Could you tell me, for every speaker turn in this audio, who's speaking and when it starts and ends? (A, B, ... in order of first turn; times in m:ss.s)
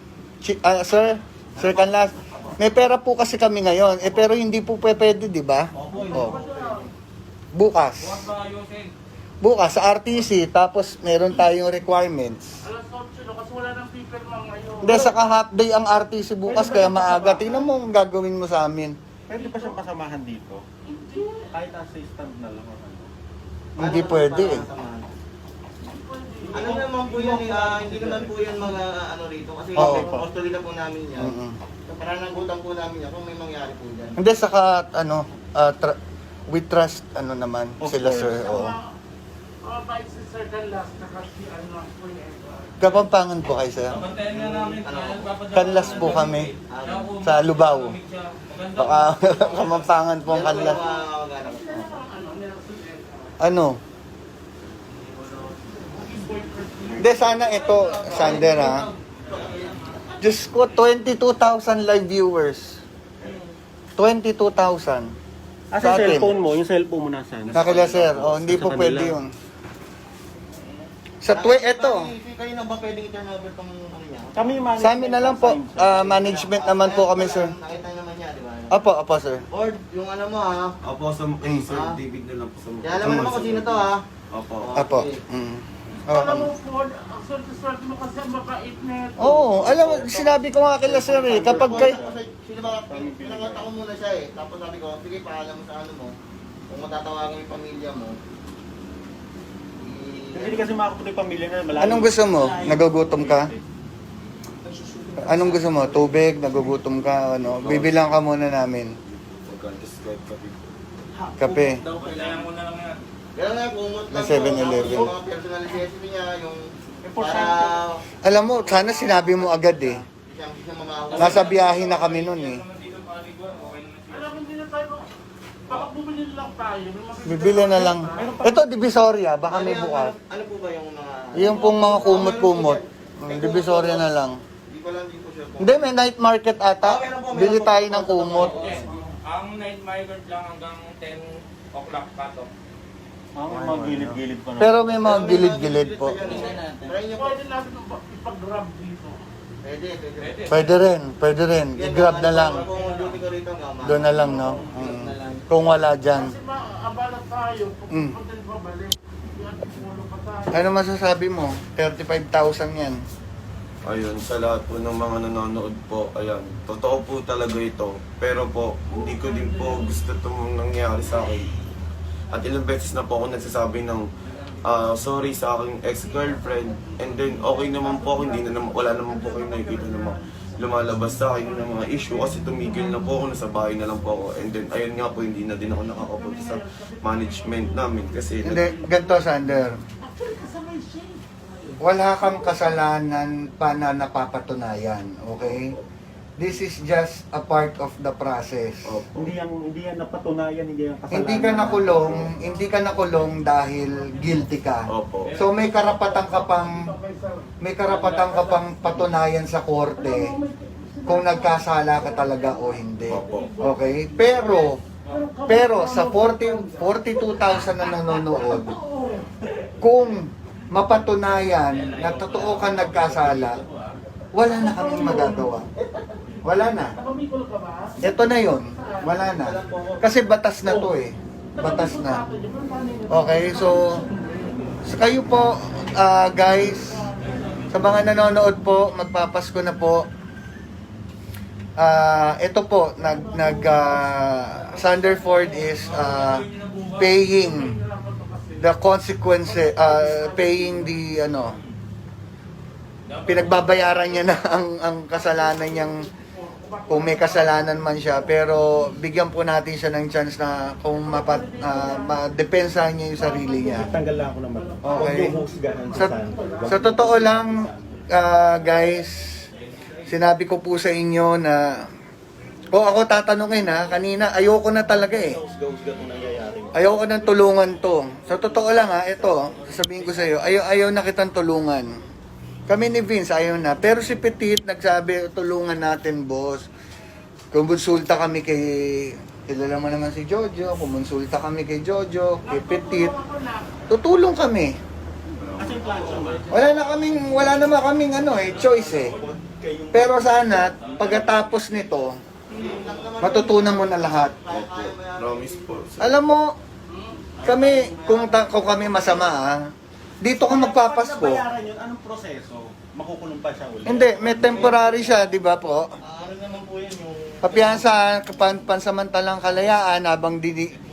0:00.4-0:06.4 A
0:05.8-0:06.9 B
0:06.1-0:06.9 C
0:07.5-0:08.3 A
0:08.2-0:08.9 D
0:09.4-0:12.6 A
0:12.6-0:15.3 C
0:14.8-0:19.0 A
0:16.5-0:17.7 E
0:19.3-0:20.6 E
0:19.4-0:19.8 C
0:20.9-0:21.5 C
0:21.5-0:23.1 E
0:23.8-0:25.1 B
0:23.8-0:24.6 A
0:25.8-0:26.6 C
0:26.4-0:28.4 E
0:26.5-0:31.4 B
0:29.8-0:30.2 A
0:29.8-0:30.2 E
0:31.2-0:31.6 A
0:31.9-0:34.2 B
0:34.2-0:36.0 A
0:36.5-0:38.8 A
0:37.8-0:38.6 E
0:38.4-0:38.8 C
0:39.6-0:42.8 C
0:42.8-0:44.0 A
0:44.0-0:47.3 D
0:44.2-0:47.1 B
0:45.5-0:46.5 A
0:47.2-0:48.0 A
0:48.1-0:49.8 D
0:48.8-0:50.8 A
0:50.2-0:52.0 B
0:51.5-0:53.4 C
0:53.4-0:53.8 A
0:55.8-0:58.2 C
0:57.0-0:58.9 A
0:58.1-1:00.0 B
1:00.2-1:02.8 A
1:04.0-1:05.1 A
1:05.7-1:09.2 E
1:05.8-1:06.3 A
1:07.5-1:09.3 A
1:11.2-1:12.1 A
1:11.3-1:14.7 B
1:14.4-1:16.2 E
1:14.8-1:17.6 A
1:16.0-1:18.8 B
1:18.7-1:19.4 A
1:19.5-1:20.8 B
1:20.8-1:24.7 F
1:21.7-1:22.0 B
1:22.8-1:24.0 B
1:23.0-1:23.4 A
1:24.6-1:25.2 B
1:24.8-1:26.5 A
1:26.1-1:29.8 C
1:29.2-1:32.0 A
1:29.8-1:32.2 E
1:31.4-1:36.2 B
1:32.8-1:33.7 E
1:36.7-1:38.2 B
1:39.8-1:40.7 B
1:40.3-1:43.6 E
1:41.8-1:43.5 A
1:45.1-1:45.4 E
1:45.2-1:48.9 A
1:47.6-1:48.2 F
1:49.0-1:50.8 F
1:51.2-1:51.7 E
1:51.4-1:51.8 A
1:51.9-1:53.0 D
1:53.4-1:58.0 B
1:54.1-1:55.1 A
1:57.0-1:57.8 E
1:58.2-2:00.0 A
1:58.6-2:01.8 B
2:01.1-2:04.4 D
2:01.2-2:02.7 A
2:04.1-2:05.1 C
2:05.7-2:08.4 C
2:07.2-2:10.2 A
2:08.2-2:08.6 E
2:09.5-2:14.1 B
2:11.4-2:14.4 A
2:11.5-2:12.3 C
2:14.7-2:15.9 B
2:15.6-2:18.6 A
2:16.8-2:19.0 B
2:18.7-2:22.5 D
2:23.4-2:24.8 E
2:24.6-2:26.3 A
2:25.0-2:27.4 B
2:27.2-2:29.3 C
2:29.6-2:30.5 B
2:30.5-2:32.7 A
2:31.8-2:35.5 B
2:33.8-2:36.4 A
2:36.1-2:40.7 C
2:37.9-2:38.2 A
2:40.5-2:43.0 A
2:43.8-2:51.5 F
2:52.3-2:54.1 F
2:54.6-3:08.7 F
2:57.6-3:00.2 C
3:01.5-3:02.6 C
3:06.1-3:07.8 C
3:08.4-3:09.8 A
3:08.6-3:09.2 C
3:10.0-3:11.2 C
3:11.8-3:15.8 A
3:15.4-3:15.8 F
3:16.4-3:19.0 A
3:18.8-3:19.4 F
3:19.2-3:22.3 E
3:21.1-3:26.9 A
3:24.9-3:25.4 F
3:26.1-3:27.5 C
3:27.6-3:30.4 A
3:30.0-3:32.8 C
3:31.1-3:34.8 A
3:33.1-3:33.6 F
3:33.4-3:39.3 C
3:35.5-3:38.8 A
3:39.8-3:43.6 A
3:41.9-3:43.6 D
3:44.3-3:45.7 A
3:44.5-3:45.5 C
3:46.4-3:47.0 A
3:47.0-3:48.2 C
3:48.0-3:52.2 A
3:48.8-3:49.1 C
3:49.4-3:50.1 B
3:51.6-3:54.8 C
3:53.1-3:54.0 A
3:54.9-3:57.1 A
3:57.7-4:00.1 A
4:01.8-4:06.5 A
4:03.1-4:03.9 C
4:05.9-4:07.1 D
4:07.0-4:07.8 A
4:07.2-4:08.8 C
4:08.6-4:11.6 A
4:09.4-4:11.0 C
4:13.2-4:13.4 D
4:13.3-4:16.1 A
4:15.1-4:18.8 C
4:16.9-4:23.9 A
4:21.0-4:22.4 C
4:23.2-4:26.7 C
4:23.7-4:28.0 E
4:24.8-4:25.4 A
4:26.6-4:29.4 A
4:30.1-4:31.8 A
4:32.7-4:35.4 A
4:35.0-4:36.8 E
4:36.7-4:42.0 A
4:42.7-4:46.7 A
4:47.5-4:53.2 A
4:52.4-4:53.8 C
4:53.9-4:54.7 A
4:55.4-4:56.4 F
4:55.6-4:56.6 E
4:56.5-4:59.2 A
4:58.4-5:01.4 E
4:59.9-5:02.2 A
5:02.5-5:05.6 B
5:03.2-5:04.4 A
5:04.5-5:06.2 F
5:06.0-5:06.6 A
5:06.9-5:07.3 C
5:07.4-5:09.3 B
5:07.4-5:09.6 A
5:10.2-5:11.4 A
5:10.2-5:14.7 E
5:13.8-5:15.9 A
5:14.4-5:14.9 B
5:16.0-5:18.0 B
5:17.4-5:20.8 A